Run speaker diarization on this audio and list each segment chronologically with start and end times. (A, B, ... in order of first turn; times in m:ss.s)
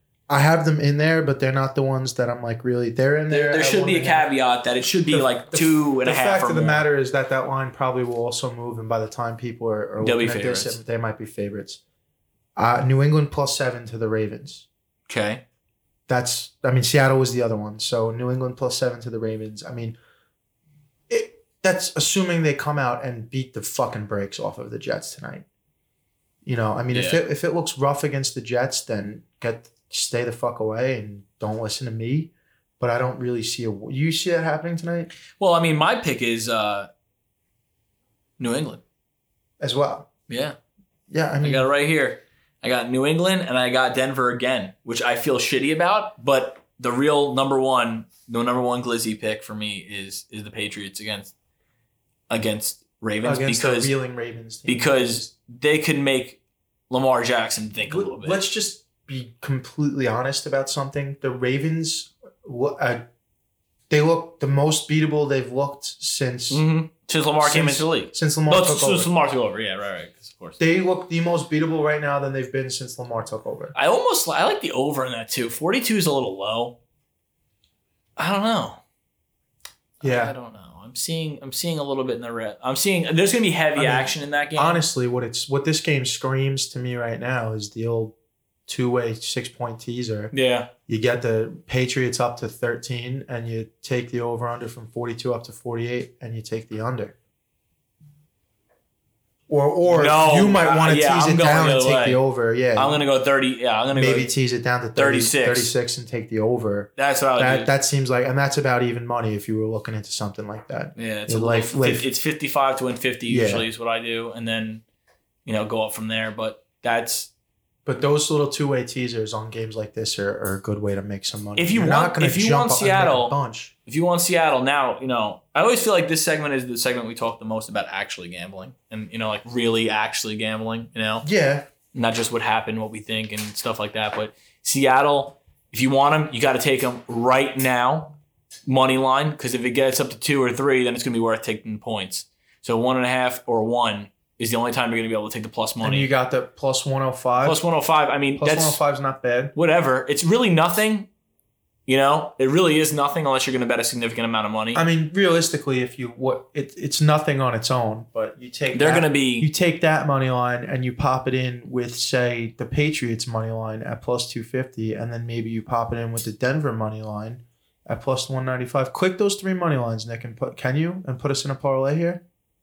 0:00.3-0:04.3 A
0:03.3-0:06.8 B
0:05.1-0:11.8 A
0:10.0-0:10.8 B
0:12.6-0:14.7 A
0:15.1-0:15.4 B
0:16.1-0:20.0 A
0:21.1-0:25.4 A
0:26.4-0:35.1 A
0:26.9-0:27.2 B
0:35.4-0:36.9 B
0:38.4-0:38.8 B
0:39.6-0:40.1 A
0:40.3-0:40.6 B
0:41.1-0:41.7 A
0:41.4-0:51.3 B
0:52.3-0:53.9 B
0:53.2-0:55.2 A
0:54.6-0:58.4 B
0:57.9-1:03.1 A
1:03.9-1:06.6 A
1:06.5-1:10.6 B
1:07.4-1:09.1 A
1:10.6-1:13.7 A
1:13.7-1:16.8 B
1:18.2-1:18.8 B
1:20.0-1:24.8 B
1:20.0-1:20.3 A
1:23.8-1:28.2 A
1:28.7-1:30.3 A
1:30.3-1:30.7 B
1:30.9-1:37.2 A
1:39.5-1:43.0 A
1:39.9-1:42.2 B
1:42.7-1:44.3 B
1:43.9-1:52.1 A
1:44.9-1:45.7 B
1:47.0-1:47.7 B
1:51.0-1:54.8 B
1:53.3-1:53.7 A
1:55.4-1:57.3 B
1:57.8-2:03.7 A
2:01.6-2:03.3 B
2:03.8-2:11.2 B
2:11.2-2:11.7 A
2:11.9-2:18.1 B
2:18.6-2:26.1 B
2:25.8-2:27.6 A
2:27.4-2:28.8 B
2:28.4-2:29.5 A
2:29.5-2:31.1 B
2:31.9-2:34.8 B
2:34.7-2:52.2 A
2:38.7-2:39.5 B